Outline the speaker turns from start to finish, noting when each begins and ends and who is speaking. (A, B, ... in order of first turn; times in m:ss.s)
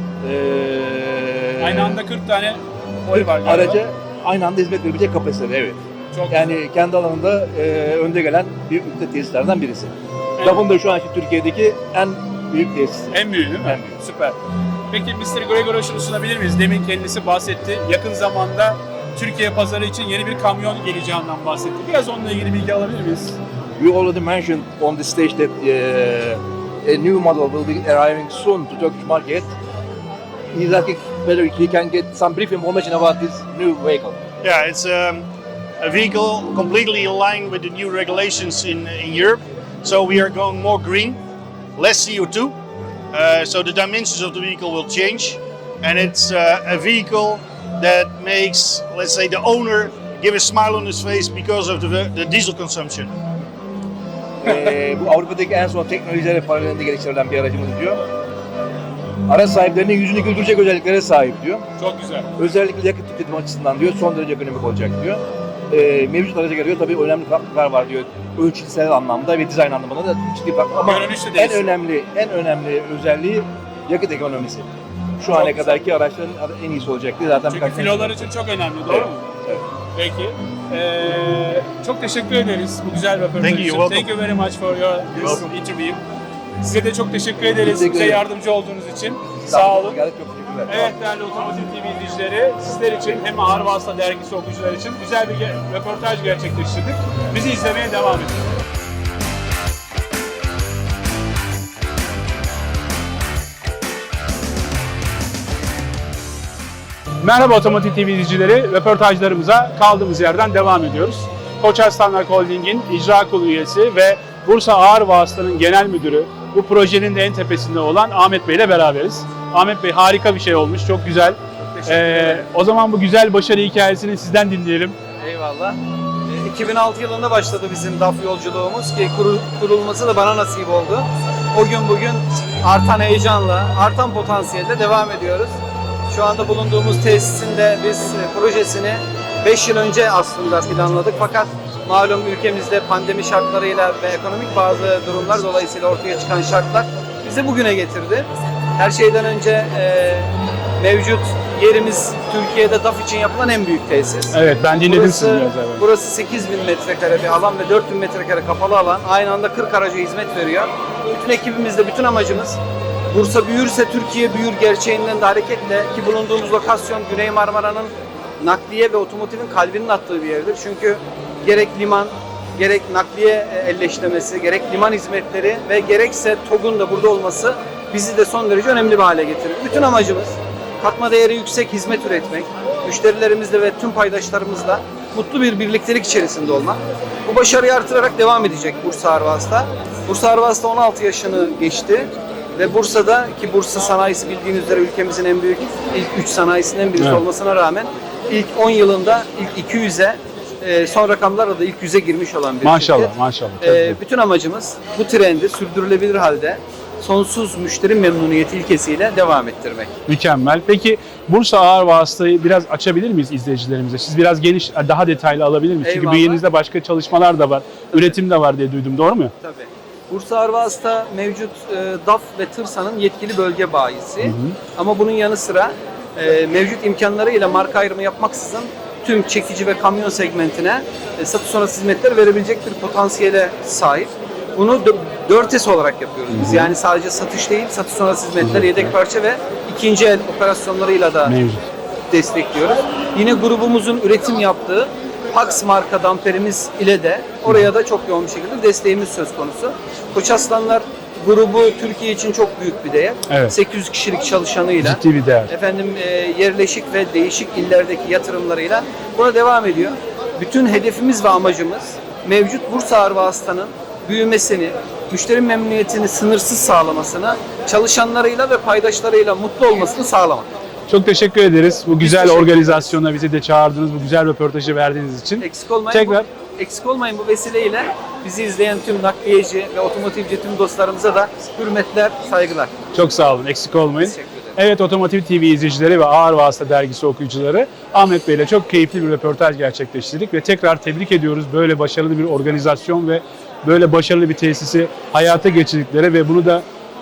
0:00.2-0:02.0 A
0:01.6-0:03.8 B
0:03.1-0:05.8 A
0:06.1-0:06.5 B
0:06.3-0:13.9 A
0:13.1-0:14.4 B
0:14.9-0:23.4 B
0:23.8-0:29.5 A
0:30.5-0:34.2 A
0:34.4-0:35.3 C
0:35.8-0:41.2 C
0:41.8-0:42.6 C
0:43.1-0:53.1 C
0:54.4-0:58.0 A
0:59.3-1:01.7 A
1:01.8-1:02.3 B
1:02.4-1:18.3 A
1:10.8-1:11.8 B
1:15.3-1:15.8 B
1:17.5-1:19.3 B
1:18.9-1:19.6 A
1:20.0-1:26.0 B
1:23.4-1:24.1 C
1:25.2-1:25.5 C
1:26.6-1:30.0 B
1:27.6-1:28.3 A
1:29.2-1:30.9 A
1:30.7-1:38.5 B
1:47.2-2:05.0 B
2:01.6-2:02.4 D
2:05.2-2:15.6 D
2:16.1-2:42.6 D
2:34.3-2:35.8 B
2:43.1-3:29.9 D
3:22.6-3:24.0 B
3:30.1-3:39.3 B
3:35.8-3:36.4 D
3:39.4-4:01.4 D
3:44.2-3:44.6 B
3:56.4-3:56.7 B
3:58.4-3:58.9 B
4:01.3-4:01.6 B
4:02.1-4:30.5 D
4:14.8-4:15.5 B
4:30.9-4:36.3 B
4:32.0-4:32.8 D
4:35.4-4:42.8 D
4:42.9-4:56.6 B
4:44.0-4:44.6 D